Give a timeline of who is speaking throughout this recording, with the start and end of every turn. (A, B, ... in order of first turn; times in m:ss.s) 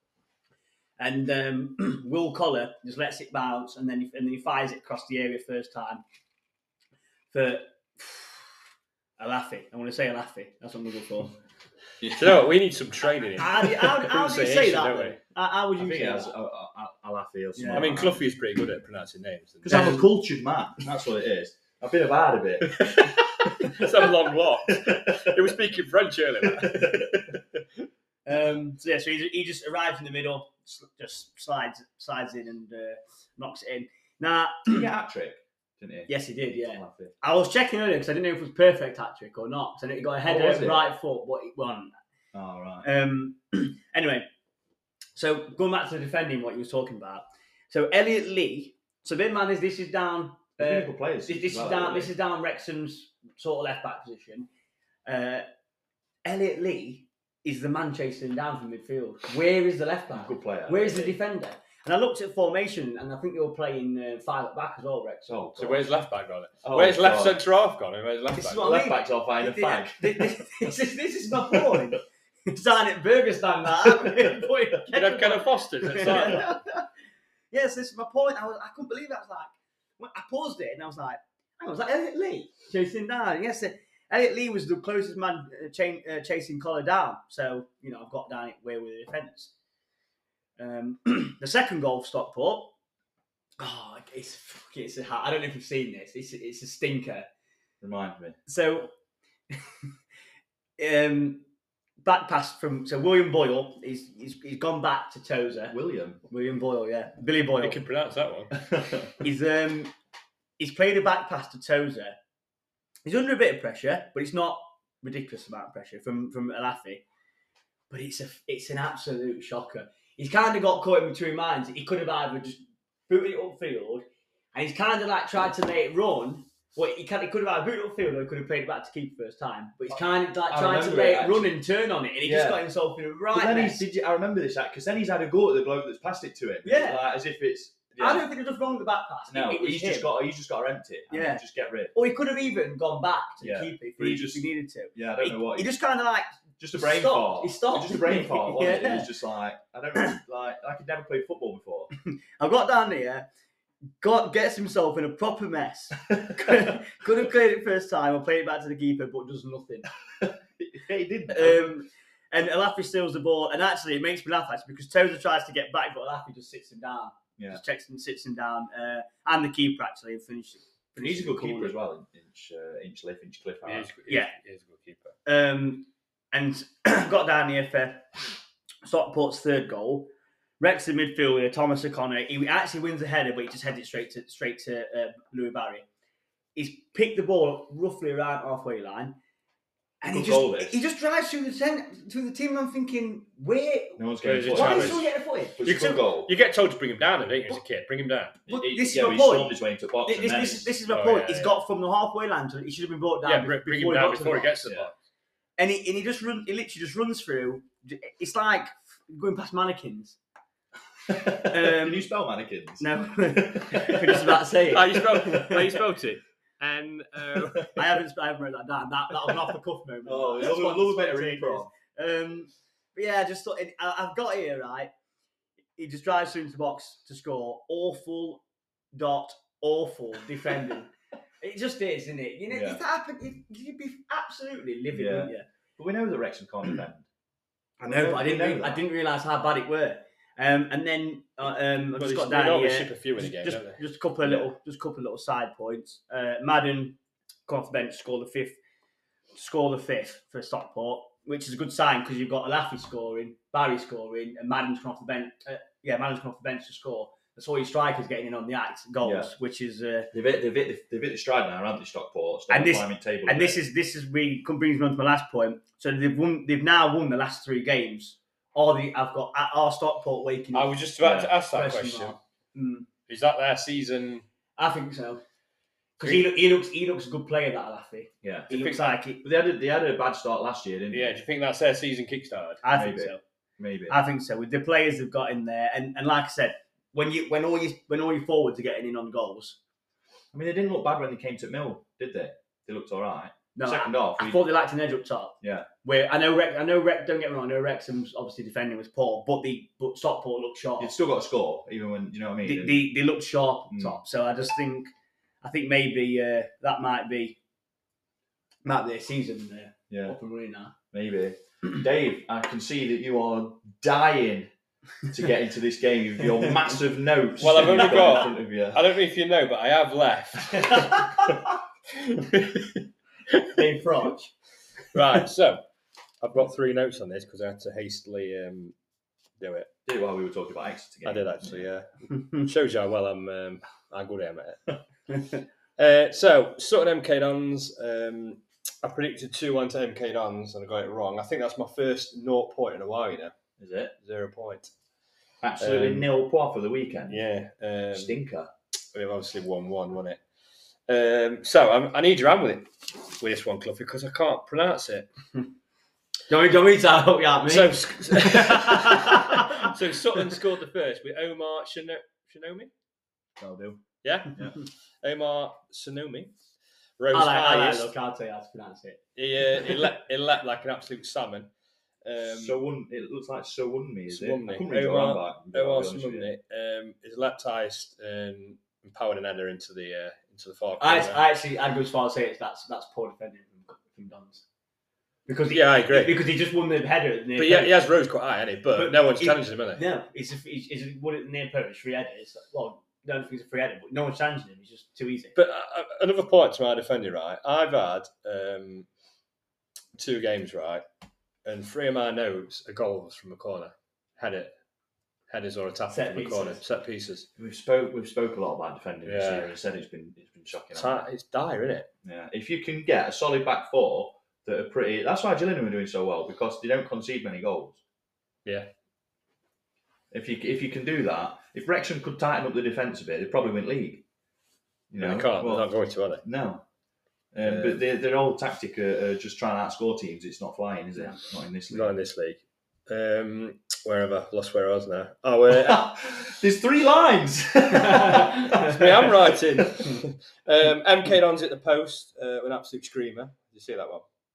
0:01.0-0:06.0 A
0:07.3-0:08.4 A
0:09.2-0:11.4 A
0:12.0-0:12.4 B
0:12.1-0:15.2 C
0:13.4-0:16.3 A
0:15.8-0:18.3 B
0:17.6-0:17.9 A
0:17.7-0:19.9 C
0:19.6-0:24.1 B
0:19.7-0:20.1 A
0:22.8-0:27.1 C
0:24.7-0:25.4 B
0:26.4-0:27.4 B
0:28.2-0:34.9 A
0:34.7-0:36.1 B
0:36.1-0:41.9 A
0:36.7-0:37.1 B
0:40.2-0:40.9 B
0:42.3-0:42.8 B
0:42.8-0:44.3 A
0:45.1-0:54.5 A
0:50.6-0:52.1 B
0:55.0-0:55.4 A
0:56.2-1:05.4 A
1:00.2-1:01.2 B
1:05.3-1:05.9 B
1:05.6-1:08.7 C
1:06.6-1:07.4 B
1:08.3-1:16.8 A
1:08.6-1:10.5 B
1:11.3-1:11.9 B
1:14.9-1:16.4 C
1:16.1-1:16.3 B
1:17.5-1:29.5 A
1:30.6-1:32.7 A
1:33.6-1:37.3 A
1:37.8-1:38.4 B
1:38.4-1:38.9 A
1:40.8-1:41.5 A
1:42.0-1:47.8 A
1:45.7-1:46.2 B
1:47.6-1:48.5 C
1:48.6-1:49.1 B
1:49.2-1:49.9 A
1:50.6-1:52.2 A
1:53.0-1:57.0 A
1:57.9-2:13.8 A
2:10.5-2:11.5 B
2:12.2-2:12.6 B
2:13.3-2:18.2 B
2:16.6-2:17.0 A
2:18.0-2:20.1 A
2:19.3-2:21.9 B
2:21.1-2:29.1 A
2:23.4-2:25.7 B
2:26.6-2:31.9 B
2:32.0-2:33.2 A
2:34.0-2:39.9 A
2:36.4-2:36.7 B
2:40.2-2:41.7 B
2:41.3-2:51.7 A
2:51.0-2:53.9 B
2:53.6-2:55.1 C
2:55.2-2:58.3 A
2:58.8-3:05.8 A
3:06.5-3:09.1 A
3:10.0-3:16.0 A
3:10.1-3:10.8 B
3:14.0-3:16.3 B
3:14.2-3:15.1 C
3:15.6-3:18.4 C
3:18.4-3:20.7 B
3:18.5-3:24.6 A
3:20.9-3:21.6 C
3:23.2-3:24.9 C
3:24.6-3:24.9 B
3:25.6-3:30.2 A
3:31.1-3:34.3 B
3:31.4-3:32.1 A
3:32.8-3:35.7 A
3:34.6-3:37.7 C
3:37.7-3:44.9 A
3:40.0-3:41.7 B
3:45.8-3:48.4 A
3:48.9-3:55.4 A
3:52.5-3:52.8 B
3:54.9-3:57.0 B
3:57.8-4:08.6 A
3:57.8-3:58.8 B
4:02.0-4:03.8 C
4:09.3-4:20.1 A
4:19.0-4:19.3 B
4:20.1-4:23.6 B
4:22.5-4:30.8 A
4:30.5-4:32.2 C
4:31.0-4:31.3 B
4:31.5-4:32.9 A
4:33.1-4:34.2 C
4:34.6-4:35.2 A
4:36.0-4:39.2 A
4:38.2-4:41.1 B
4:40.9-4:42.6 C
4:42.6-4:43.2 A
4:42.7-4:44.0 B
4:43.9-4:49.6 A
4:50.3-4:54.4 B
4:53.5-5:00.9 A
4:55.4-4:55.7 B
5:00.8-5:02.9 B
5:02.4-5:04.9 A
5:03.7-5:04.0 B
5:05.4-5:07.4 A
5:08.6-5:10.7 A
5:09.9-5:10.2 B
5:10.9-5:14.5 B
5:15.1-5:18.8 B
5:17.4-5:21.3 C
5:17.5-5:18.2 A
5:20.7-5:21.0 A
5:22.1-5:23.5 C
5:23.5-5:24.3 A
5:24.9-5:25.6 C
5:26.2-5:28.7 C
5:29.4-5:29.7 C
5:29.8-5:31.6 B
5:31.0-5:35.2 C
5:35.8-5:43.3 C
5:43.6-5:43.9 B
5:44.0-5:44.7 C
5:45.4-5:47.2 B
5:45.6-5:46.1 C
5:47.1-5:48.2 C
5:47.9-5:48.5 B
5:48.9-5:50.2 C
5:50.9-5:55.1 C
5:56.3-5:59.7 A
5:57.4-6:02.7 C
6:03.4-6:04.6 B
6:04.0-6:06.3 C
6:07.0-6:07.9 C
6:07.1-6:09.0 A
6:09.2-6:11.5 C
6:12.0-6:12.6 C
6:12.2-6:16.3 B
6:14.1-6:21.2 C
6:20.8-6:24.4 A
6:25.3-6:27.8 A
6:25.5-6:26.2 C
6:27.4-6:29.8 C
6:28.7-6:35.4 A
6:35.4-6:38.9 C
6:40.0-6:40.8 C
6:41.4-6:44.5 C
6:45.3-6:47.3 C
6:45.9-6:46.6 A
6:47.4-6:51.0 B
6:49.0-6:49.5 C
6:50.7-6:51.9 C
6:52.0-6:57.8 B
6:58.4-6:58.7 C
7:00.1-7:04.0 B
7:04.9-7:05.7 B
7:05.0-7:06.2 C
7:06.2-7:06.6 B
7:07.3-7:11.9 B
7:07.4-7:07.8 C
7:11.7-7:15.9 C
7:15.5-7:19.9 B
7:17.8-7:18.4 A
7:18.6-7:24.0 C